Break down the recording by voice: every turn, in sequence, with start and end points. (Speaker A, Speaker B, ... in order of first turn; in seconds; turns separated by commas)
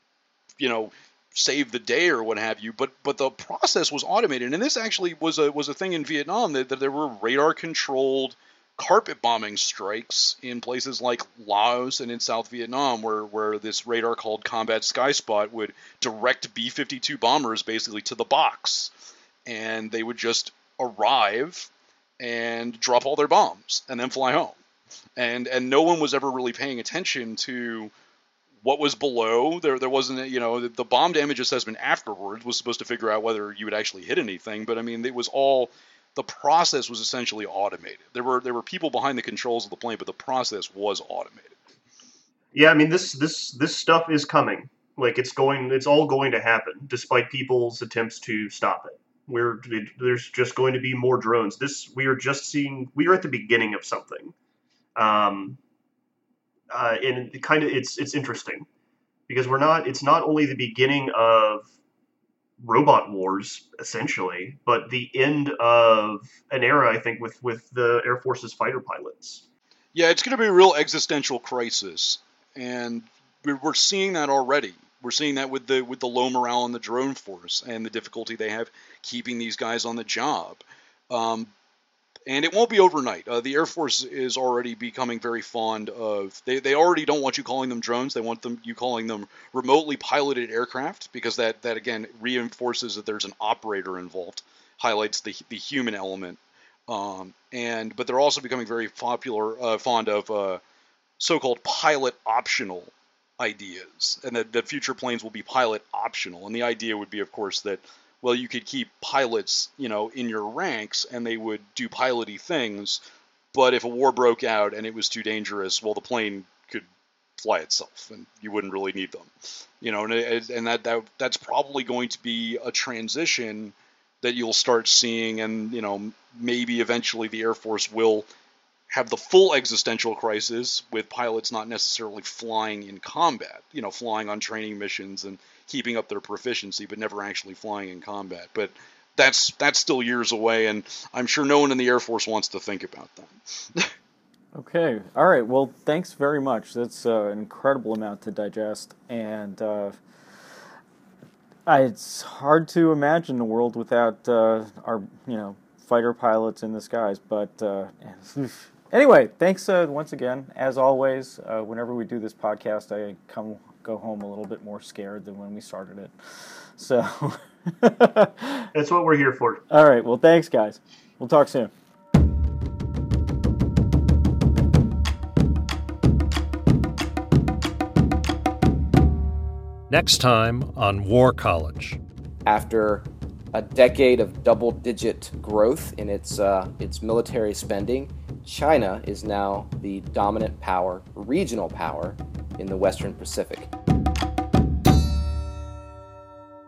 Speaker A: 0.6-18.9, Speaker A: 19.5-24.6, Speaker A: 25.2-27.9, Speaker A: 28.6-41.6, Speaker B: 42.5-54.4, Speaker B: 55.0-55.6, Speaker B: 56.7-58.7, Speaker B: 59.3-61.7, Speaker B: 62.6-69.5, Speaker A: 69.9-81.5, Speaker A: 82.3-100.6, Speaker A: 101.2-113.0, Speaker A: 113.5-116.9, Speaker A: 117.4-128.3, Speaker A: 128.9-143.9, Speaker C: 144.5-150.0, Speaker C: 151.7-168.7, Speaker B: 168.7-169.6, Speaker C: 169.7-171.7, Speaker D: 179.9-182.0, Speaker E: 182.4-193.7